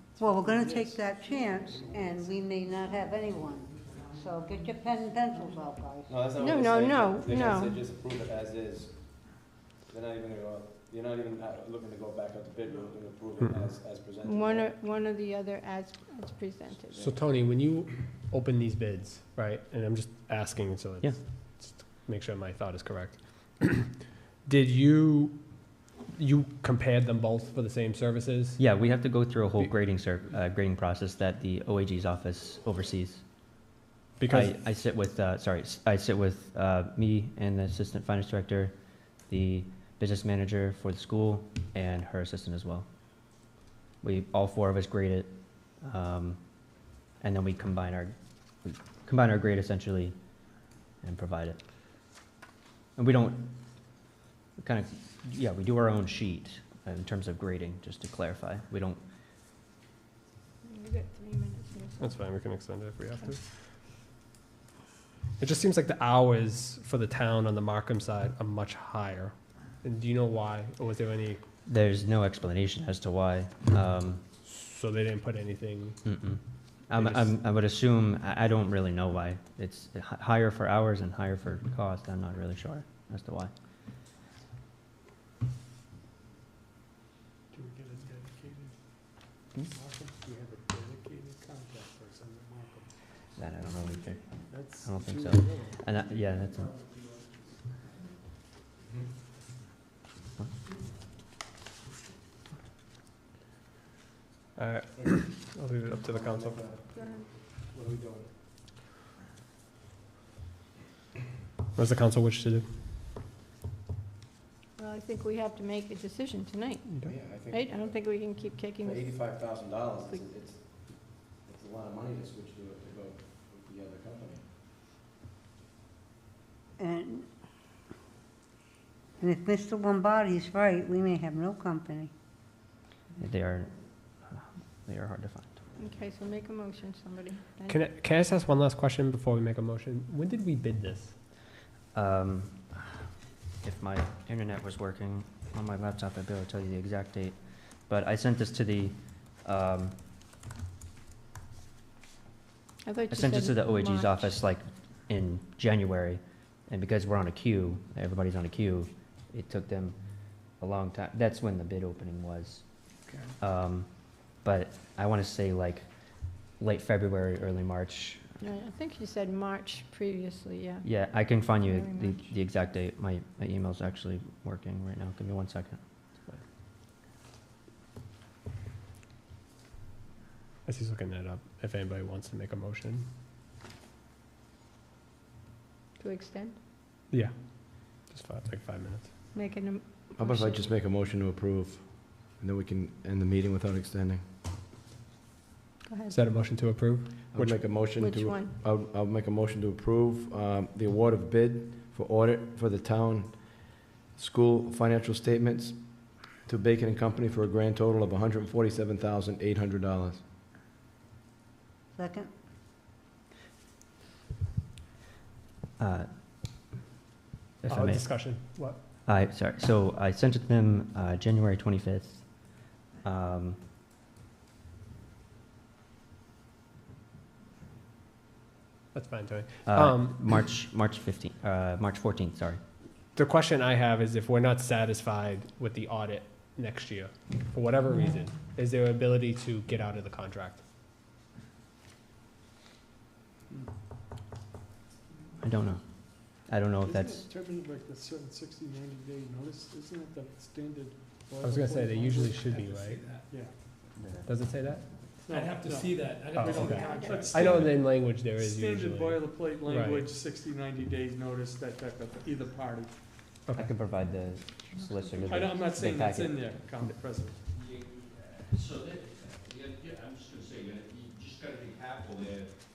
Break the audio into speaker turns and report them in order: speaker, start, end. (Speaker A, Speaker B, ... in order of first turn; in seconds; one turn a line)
Speaker A: 0.2-6.2
Speaker B: 0.2-2.3
Speaker C: 6.1-14.7
Speaker D: 6.3-7.8
Speaker D: 14.2-17.1
Speaker E: 17.0-28.6
Speaker F: 28.6-33.2
Speaker E: 34.2-34.5
Speaker F: 34.3-42.9
Speaker F: 44.0-50.1
Speaker F: 51.0-51.6
Speaker F: 53.0-53.5
Speaker F: 54.6-59.0
Speaker D: 60.6-62.6
Speaker E: 62.0-63.4
Speaker D: 63.1-63.4
Speaker E: 65.4-71.4
Speaker F: 71.7-74.2
Speaker E: 74.4-76.0
Speaker F: 76.0-83.5
Speaker E: 77.0-77.3
Speaker B: 87.5-92.9
Speaker F: 93.3-96.7
Speaker B: 94.4-95.7
Speaker C: 98.8-99.1
Speaker E: 104.5-106.6
Speaker C: 106.0-108.3
Speaker D: 106.9-107.3
Speaker E: 111.7-112.7
Speaker D: 114.8-120.2
Speaker C: 117.0-124.4
Speaker A: 126.8-127.2
Speaker A: 129.2-132.1
Speaker F: 133.2-135.6
Speaker D: 135.8-137.8
Speaker E: 137.7-141.2
Speaker F: 141.9-143.0
Speaker F: 143.6-149.9
Speaker D: 152.8-154.4
Speaker F: 153.1-162.8
Speaker F: 163.4-168.3
Speaker D: 168.4-172.3
Speaker F: 170.8-175.8
Speaker E: 180.7-183.1
Speaker D: 186.0-186.6
Speaker E: 187.1-189.1
Speaker D: 189.3-190.6
Speaker C: 190.2-194.2
Speaker D: 195.8-196.2
Speaker E: 196.1-197.6
Speaker C: 197.3-210.2
Speaker D: 197.9-198.6
Speaker A: 211.9-212.3
Speaker F: 215.8-216.1
Speaker F: 217.6-218.4
Speaker E: 217.7-218.8
Speaker F: 219.1-223.6
Speaker E: 228.9-230.2
Speaker F: 229.7-232.6
Speaker E: 233.1-240.6
Speaker F: 245.4-247.3
Speaker B: 246.8-252.5
Speaker E: 251.4-253.0
Speaker G: 252.1-253.2
Speaker B: 253.3-253.5
Speaker F: 254.0-254.3
Speaker E: 254.2-254.9
Speaker B: 255.2-263.0
Speaker G: 255.3-256.6
Speaker E: 256.4-260.1
Speaker D: 256.6-257.4
Speaker F: 263.5-266.5
Speaker B: 265.2-267.4
Speaker H: 267.5-272.5